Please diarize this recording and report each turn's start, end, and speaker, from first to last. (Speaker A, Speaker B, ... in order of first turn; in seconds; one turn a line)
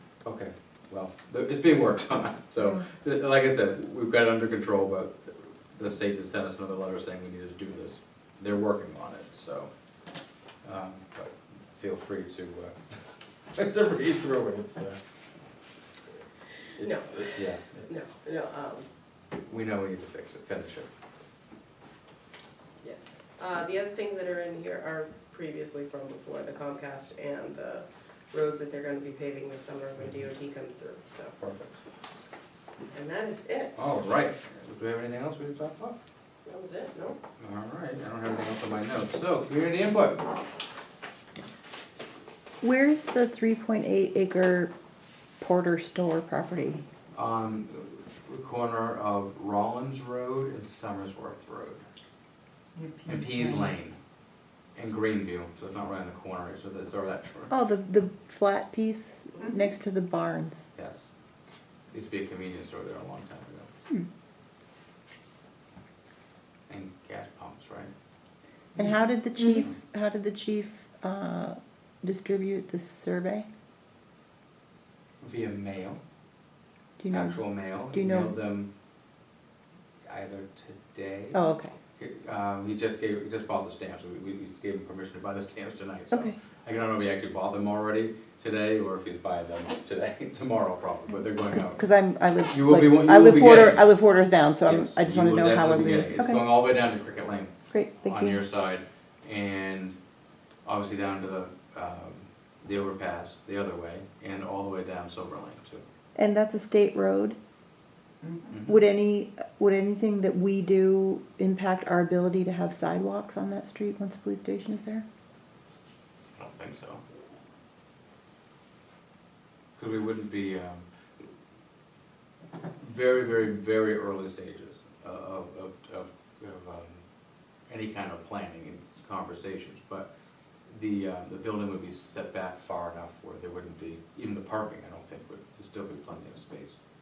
Speaker A: 0.2-9.7
Speaker A: 10.6-12.8
Speaker A: 13.5-15.0
Speaker A: 16.8-18.1
Speaker B: 16.8-17.3
Speaker B: 17.9-18.9
Speaker A: 19.5-20.9
Speaker B: 22.8-31.3
Speaker A: 31.4-31.8
Speaker B: 32.9-33.9
Speaker A: 33.8-36.0
Speaker B: 36.4-37.2
Speaker A: 37.4-40.2
Speaker C: 42.6-44.7
Speaker C: 45.4-46.8
Speaker A: 47.1-51.9
Speaker A: 53.0-54.0
Speaker A: 54.8-57.5
Speaker C: 57.5-60.6
Speaker A: 60.7-61.1
Speaker A: 61.9-63.7
Speaker A: 66.7-67.9
Speaker C: 68.8-73.5
Speaker A: 75.2-76.0
Speaker C: 77.0-78.3
Speaker A: 77.1-78.7
Speaker A: 80.1-81.4
Speaker C: 81.3-81.7
Speaker A: 82.0-91.8
Speaker C: 91.5-96.4
Speaker A: 92.5-93.9
Speaker A: 94.6-100.0
Speaker C: 97.7-98.4
Speaker A: 100.6-105.8
Speaker C: 106.2-107.4
Speaker A: 108.5-108.8
Speaker C: 108.6-115.0
Speaker A: 116.4-117.0
Speaker A: 119.8-120.8
Speaker A: 122.8-127.0
Speaker A: 127.7-130.1
Speaker A: 130.7-136.8